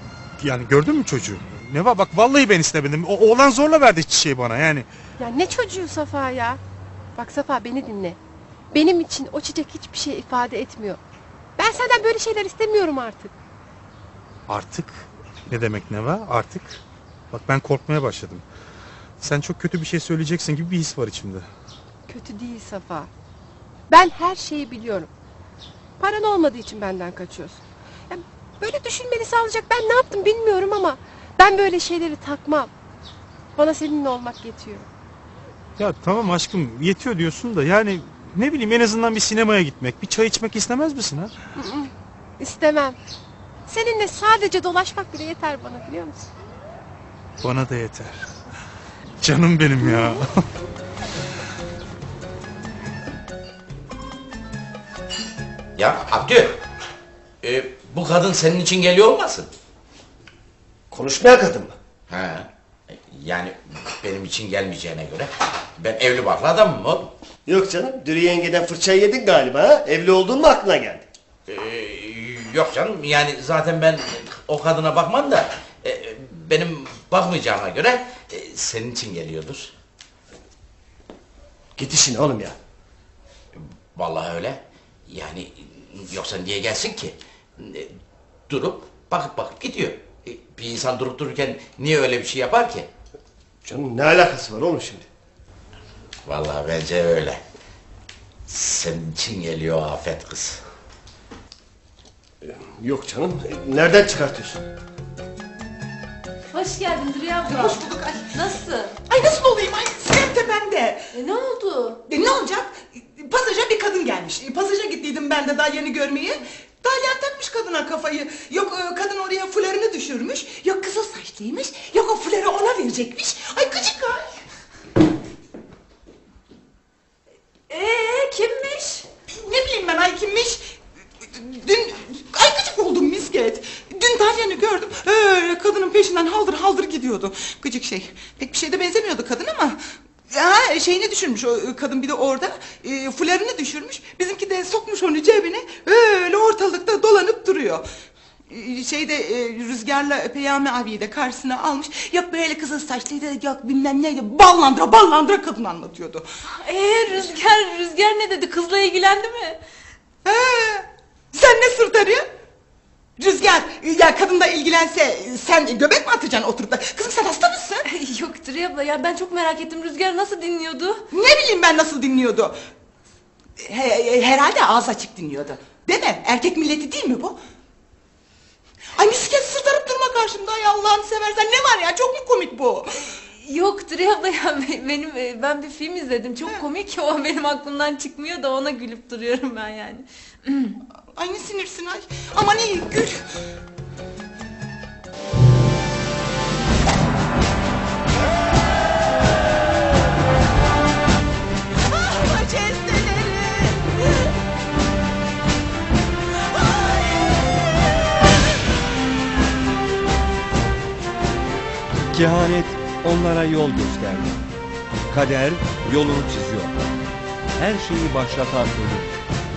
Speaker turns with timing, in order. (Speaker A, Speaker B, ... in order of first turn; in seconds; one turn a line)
Speaker A: 0.4-4.8
Speaker B: 5.2-6.6
Speaker B: 7.2-8.2
Speaker B: 8.7-11.0
Speaker B: 11.6-13.3
Speaker A: 14.5-16.8
Speaker A: 17.3-18.4
Speaker A: 19.2-21.5
Speaker B: 22.1-23.1
Speaker B: 23.9-25.1
Speaker B: 26.0-32.7
Speaker B: 33.5-34.9
Speaker A: 35.8-41.3
Speaker B: 41.5-43.0
Speaker B: 43.7-46.3
Speaker A: 47.4-48.2
Speaker A: 49.2-50.3
Speaker B: 49.8-50.1
Speaker C: 55.8-56.6
Speaker C: 57.4-59.5
Speaker D: 60.9-61.7
Speaker C: 62.1-67.1
Speaker D: 67.5-71.0
Speaker C: 71.5-79.7
Speaker D: 81.8-82.5
Speaker C: 83.6-87.9
Speaker C: 88.5-92.9
Speaker D: 93.6-95.0
Speaker C: 96.2-97.4
Speaker C: 98.5-100.6
Speaker D: 102.4-104.6
Speaker E: 106.5-108.9
Speaker F: 107.4-108.3
Speaker F: 109.0-111.0
Speaker E: 111.1-112.0
Speaker F: 112.1-124.3
Speaker E: 127.7-129.1
Speaker F: 129.3-130.6
Speaker F: 131.3-139.8
Speaker F: 140.3-147.8
Speaker F: 148.5-156.3
Speaker E: 156.6-159.6
Speaker F: 160.2-162.3
Speaker F: 163.2-167.8
Speaker E: 167.8-171.0
Speaker F: 171.1-172.6
Speaker F: 173.6-177.4
Speaker F: 178.9-182.9
Speaker E: 183.0-190.1
Speaker F: 186.4-186.7
Speaker F: 191.1-193.2
Speaker F: 202.1-203.7
Speaker G: 212.1-214.4
Speaker G: 215.1-216.7
Speaker G: 217.6-219.1